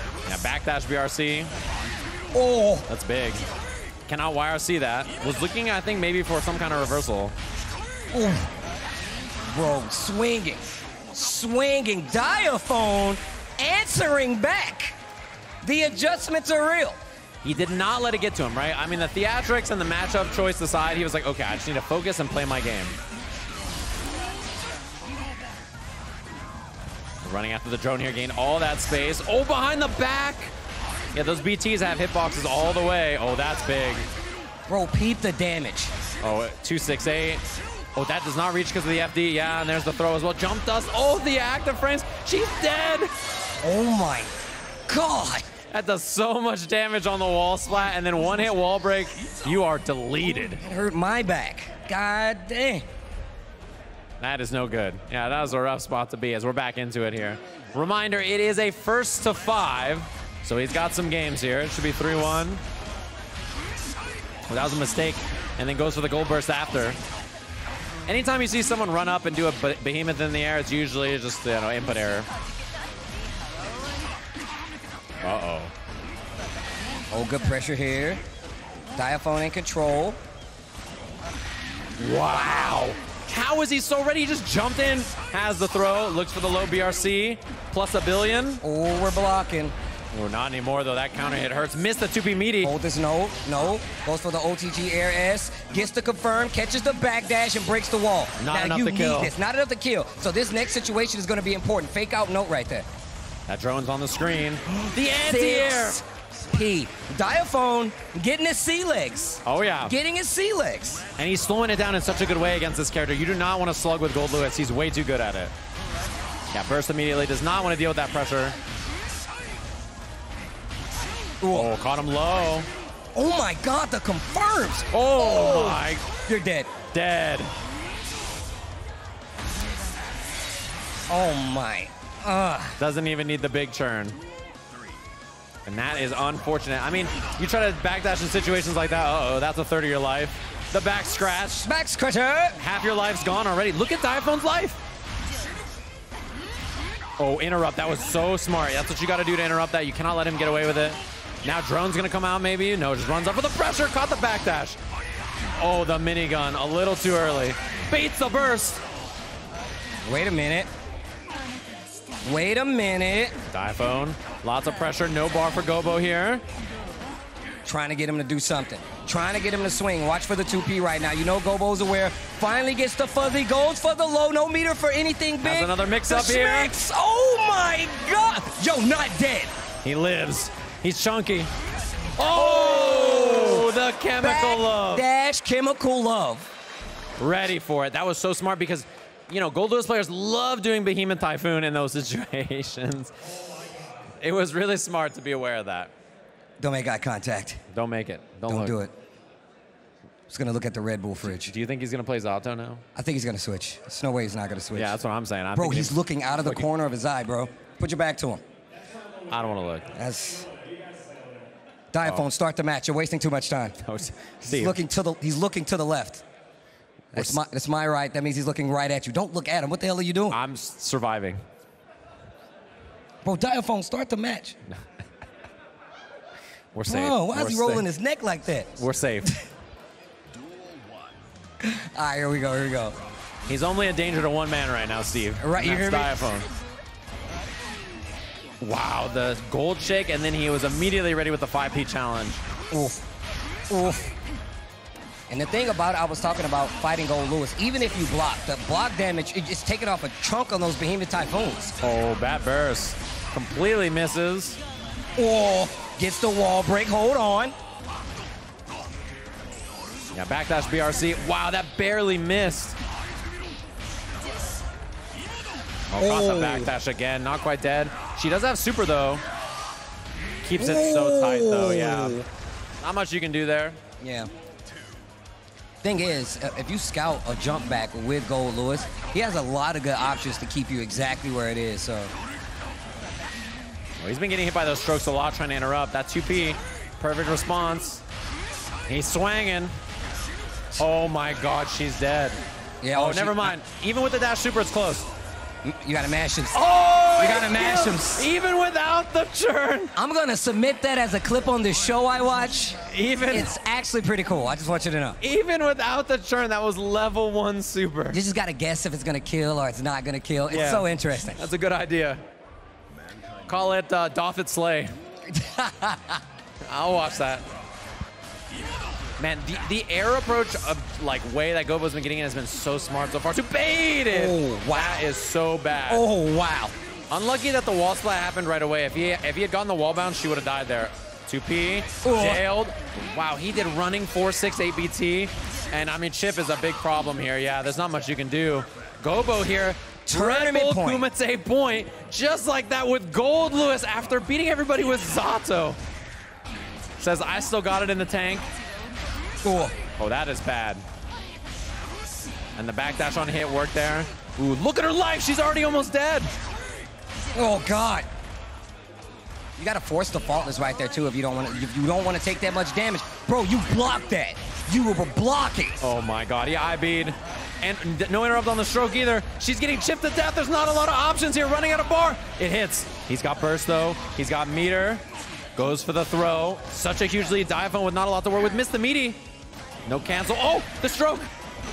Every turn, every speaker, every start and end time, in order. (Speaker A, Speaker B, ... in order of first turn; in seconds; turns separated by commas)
Speaker A: 0.2-1.5, Speaker B: 2.3-2.9, Speaker A: 2.9-3.4, Speaker A: 4.1-7.3, Speaker B: 8.1-8.5, Speaker B: 9.5-14.9, Speaker B: 15.6-17.0, Speaker A: 17.4-22.9, Speaker A: 27.2-30.5, Speaker A: 31.1-34.1, Speaker B: 34.7-35.9, Speaker A: 36.2-37.4, Speaker A: 38.0-43.1, Speaker B: 43.6-44.3, Speaker B: 44.9-45.5, Speaker A: 45.7-50.6, Speaker B: 50.5-52.9, Speaker A: 54.2-62.6, Speaker A: 64.5-67.0, Speaker A: 68.1-72.3, Speaker A: 75.2-75.7, Speaker B: 77.1-78.2, Speaker B: 78.9-80.2, Speaker A: 82.0-88.6, Speaker B: 88.6-89.7, Speaker A: 90.1-92.7, Speaker B: 92.6-102.8, Speaker A: 98.4-99.3, Speaker A: 103.5-106.0, Speaker B: 104.7-111.0, Speaker A: 109.4-109.9, Speaker A: 111.2-115.5, Speaker A: 116.5-118.5, Speaker B: 121.4-121.7, Speaker A: 121.5-122.7, Speaker B: 123.1-126.7, Speaker A: 124.9-126.0, Speaker A: 126.9-127.5, Speaker B: 131.1-132.8, Speaker A: 132.8-134.2, Speaker A: 135.7-141.7, Speaker B: 141.6-142.6, Speaker A: 142.6-144.8, Speaker A: 147.2-154.8, Speaker A: 155.6-158.8, Speaker B: 160.0-160.7, Speaker B: 162.2-163.3, Speaker A: 163.5-166.4, Speaker B: 167.6-179.5, Speaker A: 175.4-176.7, Speaker A: 179.8-181.5, Speaker A: 182.2-185.1, Speaker B: 182.2-186.5, Speaker A: 187.2-193.1, Speaker A: 194.2-195.9, Speaker B: 196.6-197.6, Speaker A: 197.7-198.8, Speaker B: 198.5-198.9, Speaker B: 200.3-201.5, Speaker A: 201.2-202.8, Speaker B: 202.9-205.0, Speaker A: 204.7-206.7, Speaker B: 205.5-208.4, Speaker A: 209.3-209.9, Speaker B: 209.9-210.5, Speaker B: 211.9-213.8, Speaker A: 213.8-214.8, Speaker B: 214.4-216.2, Speaker A: 217.1-217.4, Speaker B: 217.1-220.4, Speaker A: 220.3-221.4, Speaker B: 223.2-224.6, Speaker A: 226.7-227.9, Speaker B: 226.8-229.4, Speaker A: 228.8-229.3, Speaker B: 231.6-232.9, Speaker A: 233.5-236.5, Speaker B: 235.4-236.1, Speaker A: 238.6-242.4, Speaker B: 242.7-243.0, Speaker B: 243.7-244.1, Speaker B: 245.3-251.7, Speaker A: 251.8-254.6, Speaker B: 255.2-257.5, Speaker A: 260.1-262.8, Speaker A: 265.9-269.2, Speaker B: 266.0-266.7, Speaker A: 270.4-272.2, Speaker B: 270.6-272.2, Speaker A: 272.8-273.8, Speaker B: 274.0-274.3, Speaker B: 275.8-282.1, Speaker A: 284.0-288.0, Speaker A: 288.9-289.7, Speaker A: 290.8-295.1, Speaker B: 292.8-293.5, Speaker B: 295.6-296.6, Speaker A: 296.5-299.9, Speaker B: 297.1-298.3, Speaker B: 299.9-302.8, Speaker A: 302.9-303.5, Speaker B: 303.3-305.2, Speaker A: 305.2-308.2, Speaker B: 308.1-311.5, Speaker A: 310.5-312.2, Speaker A: 313.5-314.9, Speaker B: 315.3-316.2, Speaker A: 316.6-317.5, Speaker A: 319.2-326.1, Speaker B: 324.1-325.0, Speaker B: 325.9-326.7, Speaker A: 327.1-345.8, Speaker B: 332.0-332.4, Speaker B: 340.1-341.1, Speaker A: 347.0-348.4, Speaker B: 349.4-349.7, Speaker A: 350.0-350.8, Speaker A: 352.6-356.3, Speaker B: 357.3-358.1, Speaker B: 359.6-365.8, Speaker A: 365.8-375.0, Speaker A: 375.6-379.2, Speaker A: 379.9-381.3